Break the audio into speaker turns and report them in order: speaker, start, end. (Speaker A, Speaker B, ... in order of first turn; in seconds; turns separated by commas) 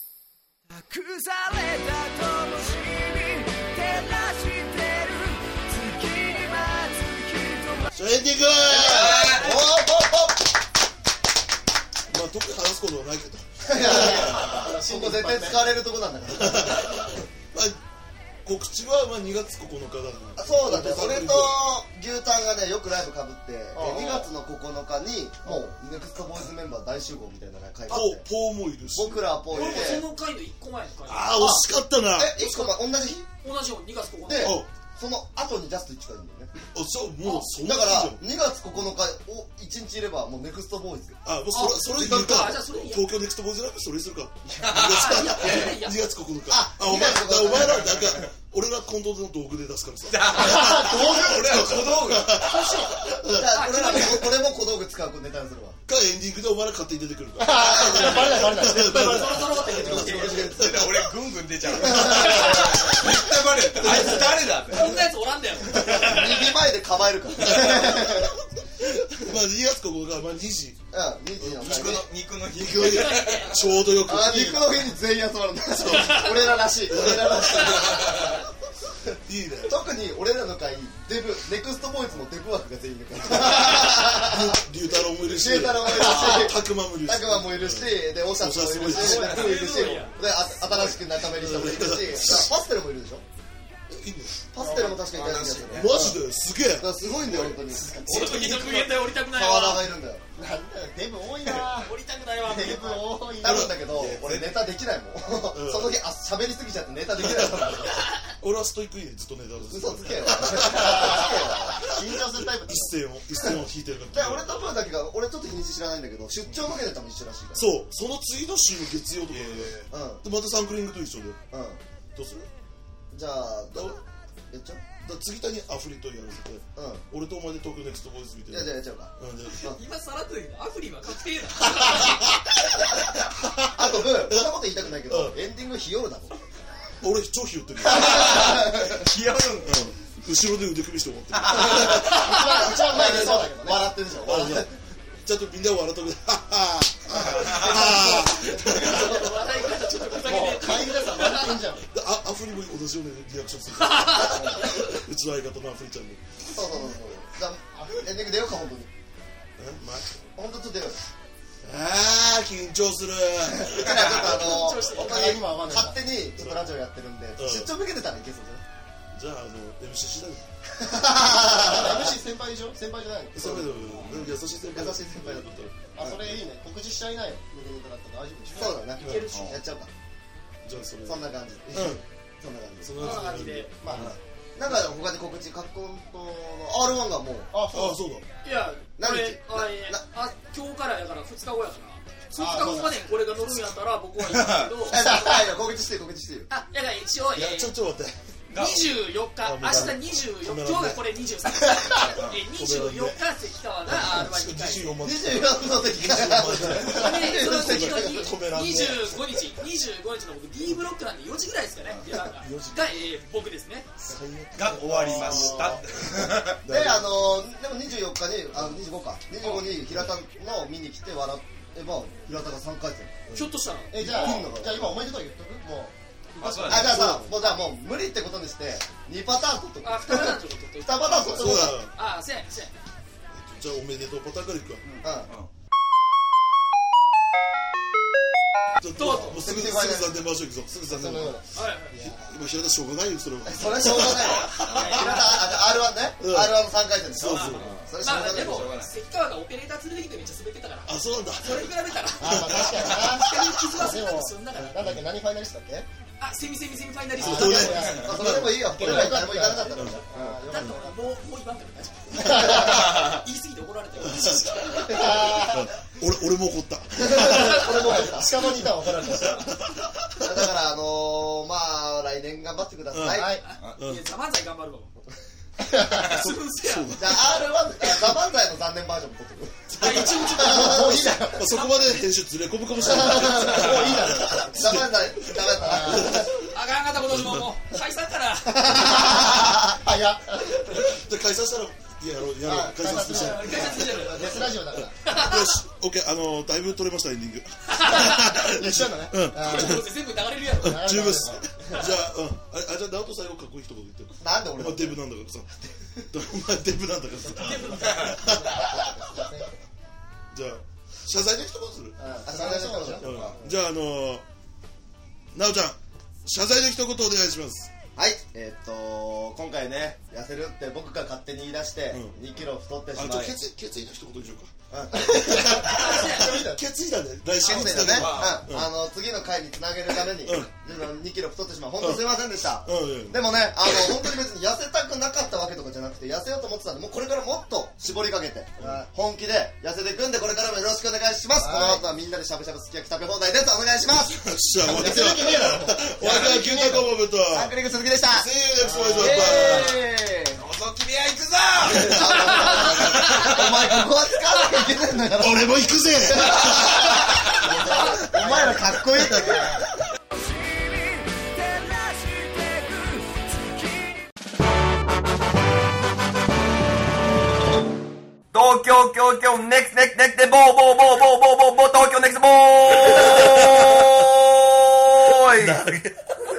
Speaker A: 0.7-7.9, Speaker B: 7.9-9.5, Speaker C: 8.7-10.5, Speaker D: 8.7-9.6, Speaker B: 12.1-14.5, Speaker C: 13.7-17.1, Speaker E: 13.8-15.6, Speaker B: 16.3-17.8, Speaker B: 18.4-21.6, Speaker C: 20.4-28.2, Speaker E: 23.7-24.3, Speaker B: 27.9-30.0, Speaker C: 28.9-30.1, Speaker F: 29.5-31.6, Speaker B: 31.1-32.3, Speaker C: 32.2-33.3, Speaker F: 32.4-32.8, Speaker F: 33.4-34.6, Speaker C: 34.3-36.5, Speaker B: 34.4-34.7, Speaker B: 36.7-38.2, Speaker C: 37.3-41.2, Speaker B: 41.2-53.6, Speaker F: 41.5-43.1, Speaker D: 44.6-45.8, Speaker F: 44.9-46.0, Speaker C: 46.5-48.2, Speaker D: 50.1-52.4, Speaker E: 50.6-51.0, Speaker F: 52.4-54.4, Speaker C: 53.3-55.8, Speaker B: 55.9-61.1, Speaker E: 57.4-59.4, Speaker F: 57.8-58.1, Speaker C: 57.9-58.2, Speaker F: 58.8-60.5, Speaker C: 59.8-60.9, Speaker D: 60.5-65.0, Speaker C: 61.8-62.8, Speaker F: 62.1-62.9, Speaker F: 64.7-66.5, Speaker C: 65.8-68.4, Speaker B: 67.4-70.8, Speaker C: 70.9-72.1, Speaker B: 71.4-71.9, Speaker D: 71.6-73.6, Speaker B: 72.5-74.8, Speaker F: 72.8-73.6, Speaker C: 74.0-78.4, Speaker E: 74.2-74.7, Speaker B: 75.8-77.8, Speaker D: 77.9-78.4, Speaker B: 79.2-79.8, Speaker C: 79.7-84.6, Speaker B: 83.4-89.7, Speaker C: 85.1-93.2, Speaker D: 86.0-86.3, Speaker F: 88.8-90.2, Speaker B: 90.5-92.5, Speaker B: 93.9-94.4, Speaker C: 94.5-100.3, Speaker E: 94.6-95.0, Speaker D: 95.0-96.1, Speaker B: 95.7-98.4, Speaker F: 97.9-99.9, Speaker D: 98.5-98.8, Speaker E: 100.4-103.7, Speaker F: 101.8-103.2, Speaker C: 103.3-108.0, Speaker B: 103.4-104.4, Speaker D: 104.1-104.6, Speaker B: 105.5-106.0, Speaker B: 107.2-107.7, Speaker B: 108.3-111.3, Speaker C: 109.6-111.9, Speaker E: 110.8-112.9, Speaker B: 111.9-114.6, Speaker C: 114.1-117.7, Speaker B: 117.5-121.4, Speaker D: 119.4-119.9, Speaker C: 119.9-120.2, Speaker C: 121.5-121.8, Speaker B: 122.2-122.5, Speaker C: 123.1-124.0, Speaker B: 123.7-124.0, Speaker C: 124.5-124.8, Speaker B: 125.0-129.8, Speaker C: 126.8-127.0, Speaker C: 128.5-129.8, Speaker F: 129.7-132.2, Speaker B: 131.8-132.3, Speaker B: 133.2-135.4, Speaker C: 133.6-136.5, Speaker B: 137.0-138.6, Speaker C: 137.8-139.1, Speaker D: 137.9-139.8, Speaker B: 139.6-142.2, Speaker D: 141.3-141.8, Speaker E: 141.5-143.9, Speaker C: 142.1-144.7, Speaker F: 142.1-142.5, Speaker B: 144.2-149.3, Speaker D: 147.4-147.8, Speaker F: 148.2-151.6, Speaker C: 148.7-149.3, Speaker E: 150.3-151.9, Speaker B: 151.8-156.2, Speaker F: 153.8-154.7, Speaker C: 154.2-154.7, Speaker C: 156.5-158.9, Speaker B: 159.6-160.1, Speaker C: 160.3-161.0, Speaker B: 161.6-164.6, Speaker C: 163.6-168.6, Speaker F: 164.4-165.4, Speaker E: 164.9-166.0, Speaker B: 166.4-166.7, Speaker B: 167.4-167.7, Speaker B: 169.1-170.4, Speaker C: 170.8-172.2, Speaker B: 171.3-171.9, Speaker E: 171.6-173.7, Speaker B: 173.3-175.9, Speaker C: 173.6-174.0, Speaker D: 173.9-174.3, Speaker C: 174.7-176.3, Speaker E: 175.9-178.8, Speaker F: 178.5-179.6, Speaker C: 178.5-179.9, Speaker B: 179.0-179.4, Speaker D: 179.3-179.6, Speaker B: 180.6-182.0, Speaker C: 181.0-183.3, Speaker B: 182.8-184.2, Speaker F: 183.0-183.7, Speaker E: 183.8-184.2, Speaker C: 183.9-187.5, Speaker E: 187.5-188.0, Speaker B: 187.7-188.3, Speaker F: 188.4-195.0, Speaker C: 189.0-190.0, Speaker E: 192.4-192.9, Speaker D: 194.2-194.8, Speaker C: 194.9-196.5, Speaker F: 196.5-197.7, Speaker B: 197.3-198.2, Speaker D: 198.5-198.9, Speaker F: 198.5-205.0, Speaker B: 199.4-201.0, Speaker C: 199.7-199.9, Speaker D: 202.2-202.4, Speaker B: 202.5-203.2, Speaker B: 203.9-209.3, Speaker C: 205.0-208.3, Speaker F: 206.9-214.0, Speaker B: 212.1-213.0, Speaker B: 214.1-217.2, Speaker D: 214.6-216.6, Speaker E: 215.0-215.8, Speaker C: 215.3-215.7, Speaker C: 216.6-223.2, Speaker B: 223.3-224.5, Speaker F: 223.3-224.3, Speaker E: 223.9-227.2, Speaker C: 224.0-225.0, Speaker D: 226.3-226.9, Speaker B: 226.5-227.3, Speaker C: 226.7-231.8, Speaker F: 229.8-232.7, Speaker B: 231.2-231.9, Speaker B: 233.3-234.8, Speaker C: 234.8-235.3, Speaker B: 238.8-241.4, Speaker F: 239.0-239.4, Speaker C: 239.1-240.2, Speaker E: 240.9-242.3, Speaker F: 241.6-242.0, Speaker B: 241.9-245.2, Speaker C: 243.5-248.7, Speaker F: 244.7-245.6, Speaker B: 246.2-247.8, Speaker F: 247.3-254.8, Speaker D: 247.5-248.9, Speaker B: 250.9-253.7, Speaker E: 252.2-255.9, Speaker B: 254.8-255.0, Speaker F: 256.2-258.0, Speaker E: 257.2-261.0, Speaker B: 257.2-259.2, Speaker C: 257.5-260.8, Speaker B: 259.7-260.7, Speaker F: 260.5-265.4, Speaker E: 262.3-262.8, Speaker D: 262.7-263.0, Speaker B: 264.0-267.7, Speaker E: 264.9-265.7, Speaker C: 267.0-268.5, Speaker E: 267.6-269.6, Speaker B: 268.9-270.5, Speaker C: 270.2-273.4, Speaker B: 272.9-274.1, Speaker E: 273.1-273.4, Speaker F: 273.4-274.9, Speaker E: 275.6-276.2, Speaker F: 275.9-276.9, Speaker B: 275.9-277.5, Speaker C: 276.9-281.2, Speaker F: 279.7-282.1, Speaker B: 279.8-280.6, Speaker E: 280.4-281.5, Speaker B: 281.3-286.5, Speaker C: 282.8-286.4, Speaker E: 282.9-284.8, Speaker E: 285.6-286.3, Speaker F: 286.4-289.3, Speaker B: 287.1-287.5, Speaker E: 288.7-290.9, Speaker C: 288.9-289.7, Speaker B: 290.6-299.9, Speaker E: 292.4-295.0, Speaker F: 292.9-295.6, Speaker F: 297.7-298.4, Speaker E: 298.4-299.8, Speaker F: 299.4-300.9, Speaker E: 300.6-301.8, Speaker B: 300.6-309.3, Speaker C: 304.2-305.0, Speaker F: 307.4-308.2, Speaker D: 307.8-308.1, Speaker E: 308.0-309.5, Speaker B: 310.3-312.0, Speaker E: 312.0-313.6, Speaker C: 312.2-313.4, Speaker B: 313.0-314.2, Speaker B: 315.3-317.7, Speaker C: 318.0-323.4, Speaker B: 321.9-322.2, Speaker B: 322.9-328.7, Speaker C: 324.7-325.7, Speaker E: 325.1-326.6, Speaker F: 325.6-326.5, Speaker C: 327.4-346.3, Speaker F: 327.4-327.9, Speaker D: 327.7-328.5, Speaker B: 330.1-330.8, Speaker B: 331.8-334.1, Speaker E: 341.4-341.8, Speaker B: 344.0-349.8, Speaker E: 344.7-346.9, Speaker C: 347.3-350.4, Speaker F: 349.3-349.6, Speaker D: 350.4-353.7, Speaker C: 351.6-359.6, Speaker B: 351.7-352.2, Speaker F: 352.4-352.7, Speaker B: 355.2-357.0, Speaker E: 357.4-359.6, Speaker F: 357.6-358.0, Speaker B: 359.0-359.4, Speaker A: 360.1-364.0, Speaker D: 368.3-375.6, Speaker B: 375.3-376.0